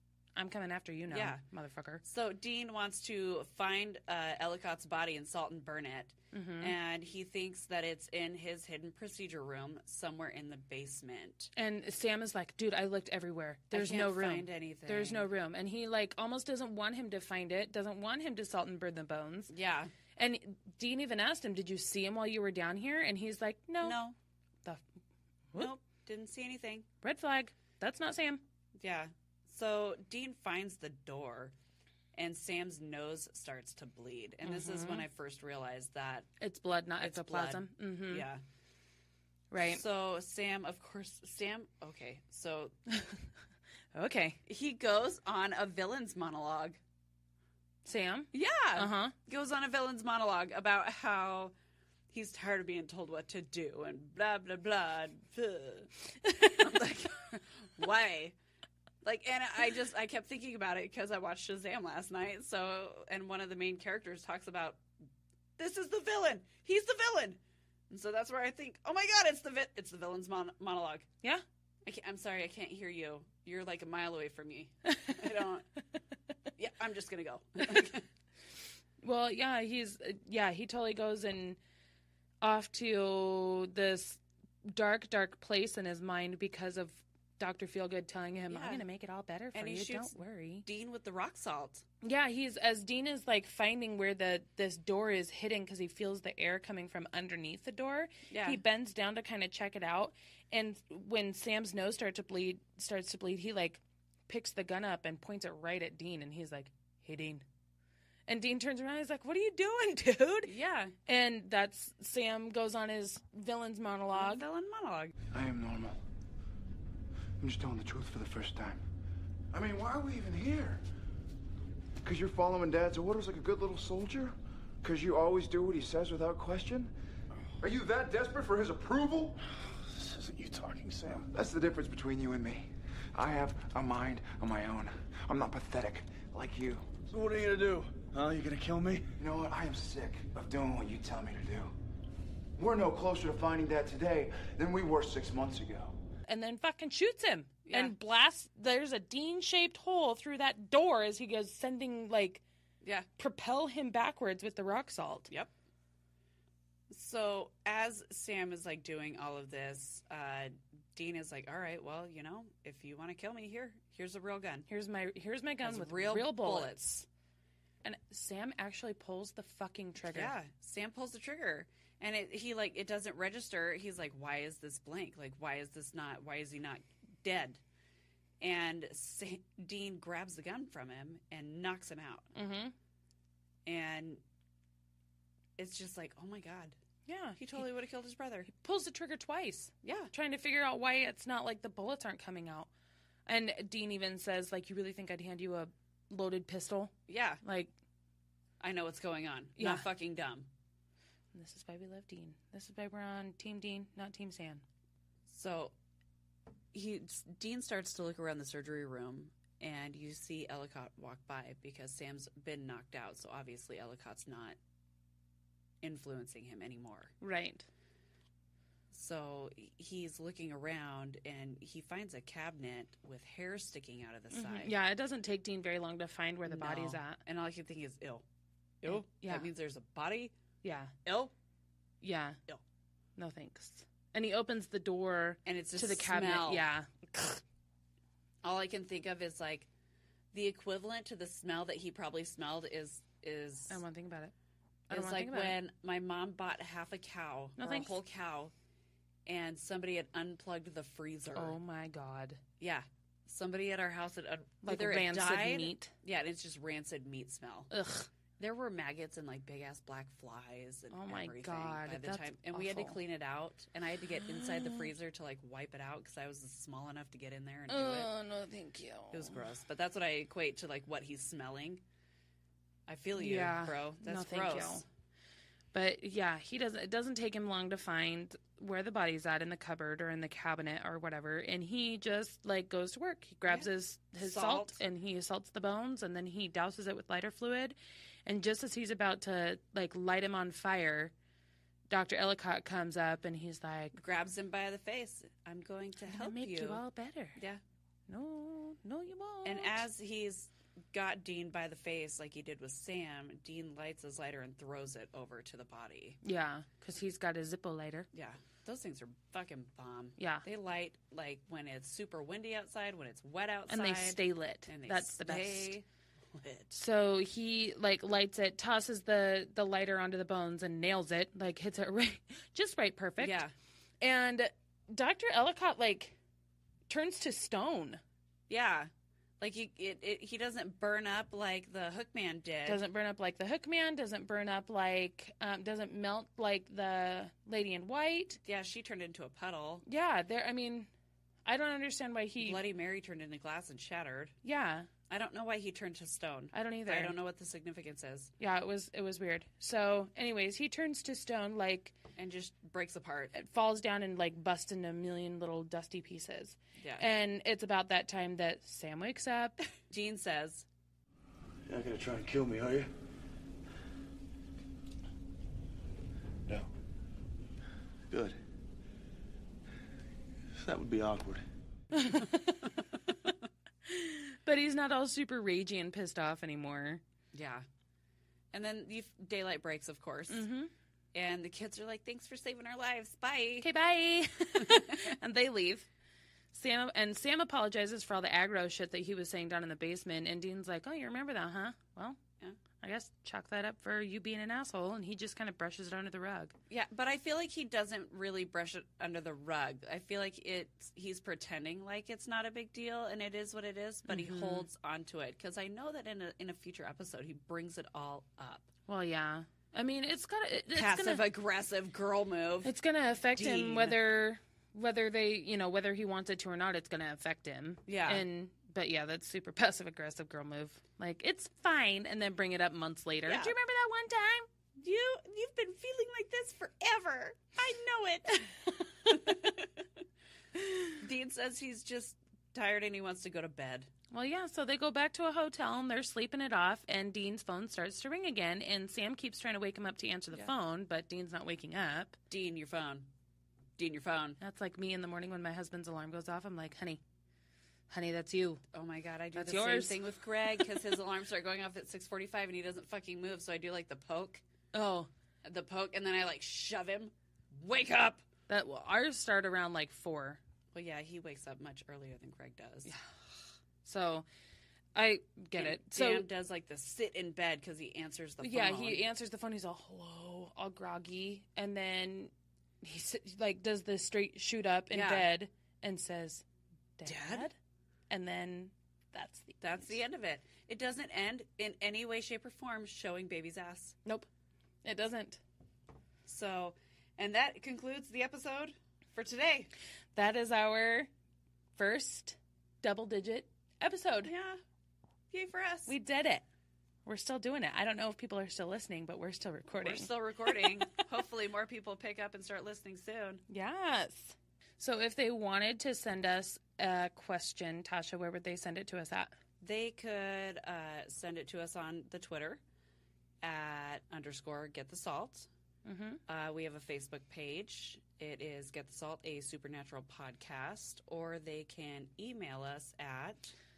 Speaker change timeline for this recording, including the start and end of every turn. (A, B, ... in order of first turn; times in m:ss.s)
0:00.3-0:02.0 A
0:01.1-0:01.4 B
0:02.0-0:11.5 B
0:06.3-0:06.7 A
0:11.6-0:19.5 A
0:13.7-0:15.3 B
0:19.5-0:19.9 B
0:20.2-0:24.0 A
0:23.8-0:24.2 B
0:25.5-0:26.8 B
0:27.0-0:28.4 A
0:28.8-0:31.5 B
0:32.1-0:36.3 B
0:34.4-0:35.0 A
0:36.4-0:38.3 A
0:37.0-0:38.4 B
0:39.5-0:39.8 A
0:39.6-0:42.8 B
0:42.9-0:43.2 A
0:43.9-0:44.4 A
0:44.4-0:46.8 B
0:47.8-0:49.1 A
0:48.3-0:51.5 B
0:52.1-0:55.9 B
0:56.2-0:56.8 A
0:56.5-0:58.4 B
0:59.0-1:04.8 B
1:05.6-1:07.4 B
1:07.9-1:11.1 B
1:11.8-1:15.7 B
1:14.9-1:15.2 A
1:16.6-1:18.0 B
1:17.6-1:17.9 A
1:19.0-1:21.6 A
1:22.4-1:30.6 A
1:28.5-1:28.8 B
1:29.5-1:31.8 B
1:32.0-1:47.4 A
1:38.3-1:38.6 B
1:48.3-1:50.5 A
1:50.4-1:50.9 B
1:51.0-1:54.5 A
1:54.1-1:55.1 B
1:55.3-1:56.0 C
1:57.4-1:58.8 C
1:59.5-2:00.8 C
2:02.0-2:06.9 C
2:07.6-2:09.4 C
2:09.6-2:11.2 D
2:11.1-2:17.1 C
2:17.1-2:19.1 D
2:19.1-2:21.7 C
2:22.6-2:25.9 C
2:26.2-2:32.4 A
2:27.6-2:27.9 B
2:32.8-2:33.1 B
2:33.2-2:35.3 A
2:36.9-2:44.7 B
2:44.7-2:46.9 A
2:45.6-2:47.1 B
2:47.8-2:50.3 A
2:50.0-2:57.6 B
2:58.4-3:02.3 B
3:02.3-3:02.7 A
3:03.6-3:04.2 B
3:05.6-3:06.8 B
3:07.0-3:07.6 A
3:07.4-3:08.5 B
3:08.5-3:12.7 A
3:09.8-3:10.1 B
3:13.2-3:17.7 A
3:17.1-3:17.4 B
3:18.6-3:20.5 B
3:19.6-3:19.9 A
3:21.3-3:24.6 A
3:25.3-3:25.7 B
3:26.7-3:34.6 B
3:35.8-3:37.1 B
3:37.2-3:37.7 A
3:38.9-3:44.7 B
3:44.3-3:47.2 A
3:46.4-3:48.2 B
3:48.8-3:50.3 B
3:48.8-3:49.5 A
3:50.6-3:50.9 A
3:51.0-3:51.3 B
3:52.0-3:52.4 A
3:53.2-3:57.4 A
3:55.4-3:56.6 B
3:58.4-3:59.7 B
4:00.3-4:03.8 B
4:03.7-4:04.3 A
4:04.9-4:05.6 A
4:04.9-4:08.5 B
4:07.6-4:07.9 A
4:09.2-4:11.6 B
4:11.3-4:12.4 A
4:12.6-4:17.7 B
4:14.6-4:15.9 A
4:17.7-4:18.1 A
4:18.4-4:28.1 B
4:20.9-4:23.0 A
4:24.2-4:24.9 A
4:27.7-4:29.5 A
4:29.1-4:31.8 B
4:32.9-4:34.8 B
4:33.2-4:34.8 A
4:35.7-4:51.1 A
4:44.2-4:44.8 B
4:51.9-4:54.0 A
4:54.0-4:56.8 B
4:56.1-4:57.4 A
4:57.4-4:57.6 B
4:58.1-4:59.8 A
4:59.4-5:06.2 B
5:06.2-5:08.1 A
5:08.1-5:16.7 B
5:10.2-5:10.4 A
5:13.7-5:15.8 A
5:16.7-5:23.4 A
5:23.2-5:23.5 B
5:24.0-5:26.2 A
5:26.9-5:28.0 A
5:28.5-5:32.8 B
5:32.6-5:38.4 A
5:38.4-5:39.8 B
5:39.8-5:40.9 A
5:41.4-5:42.6 A
5:42.4-5:44.3 B
5:44.4-5:44.9 A
5:45.1-5:48.3 B
5:46.5-5:47.2 A
5:48.4-5:52.0 A
5:52.2-5:53.4 B
5:53.3-5:59.6 A
5:56.8-5:57.1 B
5:59.9-6:00.7 B
6:01.7-6:02.9 D
6:08.1-6:08.4 D
6:10.6-6:11.4 D
6:11.9-6:12.6 A
6:13.8-6:17.0 A
6:17.3-6:17.6 B
6:18.5-6:20.4 B
6:20.3-6:20.7 A
6:21.1-6:23.7 B
6:23.6-6:25.9 A
6:24.6-6:25.1 B
6:26.5-6:32.2 A
6:32.8-6:36.5 A
6:36.7-6:48.7 B
6:44.1-6:44.7 A
6:48.9-6:51.2 A
6:50.7-6:52.7 B
6:52.6-7:04.5 A
6:53.3-6:54.0 B
6:57.9-6:58.2 B
7:03.2-7:03.5 B
7:04.8-7:09.8 B
7:10.6-7:10.9 A
7:11.0-7:13.9 B
7:14.1-7:22.2 A
7:22.3-7:23.1 B
7:23.8-7:24.4 B
7:24.4-7:27.0 A
7:27.9-7:28.6 A
7:28.7-7:34.4 B
7:29.3-7:30.0 A
7:34.7-7:35.1 A
7:35.4-7:38.2 B
7:38.5-7:40.4 A
7:40.7-7:42.9 B
7:43.8-7:44.3 A
7:44.9-7:46.3 A
7:45.5-7:49.0 B
7:48.4-7:56.4 A
7:54.9-7:55.3 B
7:57.0-7:57.6 A
7:57.0-7:57.4 B
7:58.1-7:59.9 A
7:59.6-8:04.0 B
8:04.8-8:05.4 A
8:06.2-8:09.7 B
8:10.1-8:11.1 A
8:11.8-8:14.3 A
8:14.2-8:14.6 B
8:15.3-8:15.9 B
8:15.9-8:16.4 A
8:17.0-8:20.1 A
8:19.8-8:23.4 B
8:23.5-8:29.4 A
8:29.6-8:32.6 B
8:33.4-8:35.5 B
8:35.8-8:36.2 A
8:36.3-8:43.6 B